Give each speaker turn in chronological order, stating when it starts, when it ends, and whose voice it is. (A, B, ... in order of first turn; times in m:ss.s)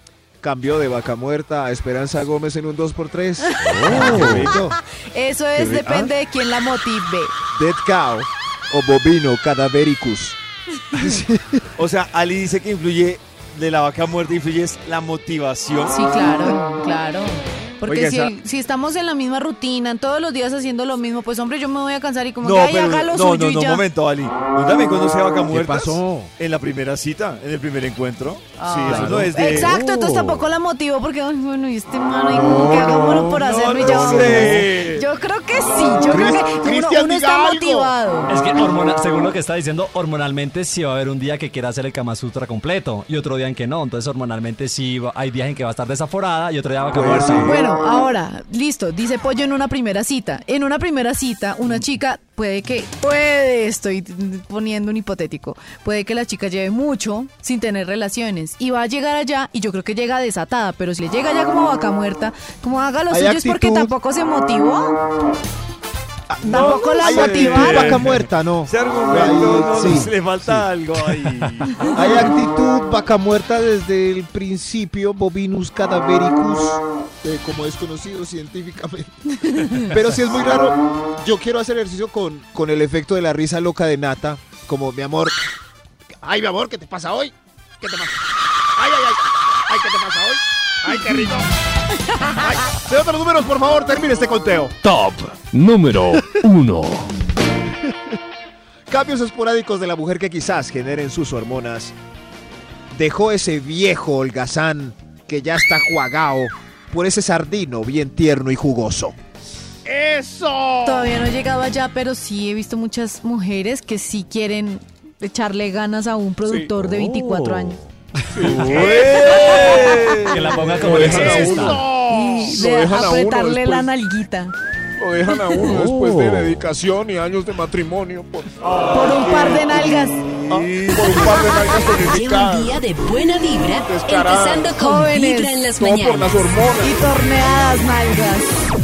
0:00.4-0:04.8 A
0:03.4-0:04.4 B
0:03.8-0:04.6 C
0:05.1-0:07.3 B
0:05.6-0:06.1 A
0:07.5-0:10.4 A
0:10.9-0:11.7 A
0:11.8-0:16.1 C
0:15.9-0:23.8 B
0:17.8-0:18.3 A
0:22.4-0:29.8 C
0:25.5-0:26.3 A
0:28.6-0:38.3 B
0:28.9-0:29.7 A
0:32.3-0:34.7 A
0:33.3-0:35.1 C
0:36.1-0:37.9 D
0:36.1-0:36.4 A
0:38.3-0:47.6 E
0:46.9-0:47.6 A
0:47.4-1:05.0 B
1:03.1-1:03.9 A
1:06.3-1:10.1 A
1:06.4-1:08.0 B
1:06.5-1:12.0 C
1:11.9-1:19.1 A
1:19.4-1:19.8 B
1:19.7-1:25.4 A
1:26.2-1:28.1 D
1:28.8-1:31.5 D
1:32.4-1:34.1 D
1:32.5-1:34.7 A
1:34.8-1:37.1 F
1:38.9-1:41.9 A
1:42.9-1:49.2 A
1:49.8-1:51.1 D
1:50.8-1:57.8 B
1:56.8-1:57.7 F
1:58.4-1:58.9 E
1:58.4-1:59.0 A
1:58.4-2:01.5 C
1:58.6-1:59.9 D
1:59.3-2:00.2 B
2:00.3-2:01.8 E
2:00.7-2:01.7 A
2:01.0-2:02.6 D
2:01.1-2:04.5 B
2:02.4-2:03.9 A
2:05.0-2:08.6 A
2:05.3-2:05.8 B
2:05.8-2:06.6 F
2:08.6-2:11.3 C
2:08.9-2:10.2 B
2:09.5-2:09.9 A
2:10.5-2:12.7 A
2:11.2-2:16.6 G
2:13.8-2:14.6 A
2:14.6-2:15.5 B
2:15.8-2:16.9 A
2:16.8-2:18.6 B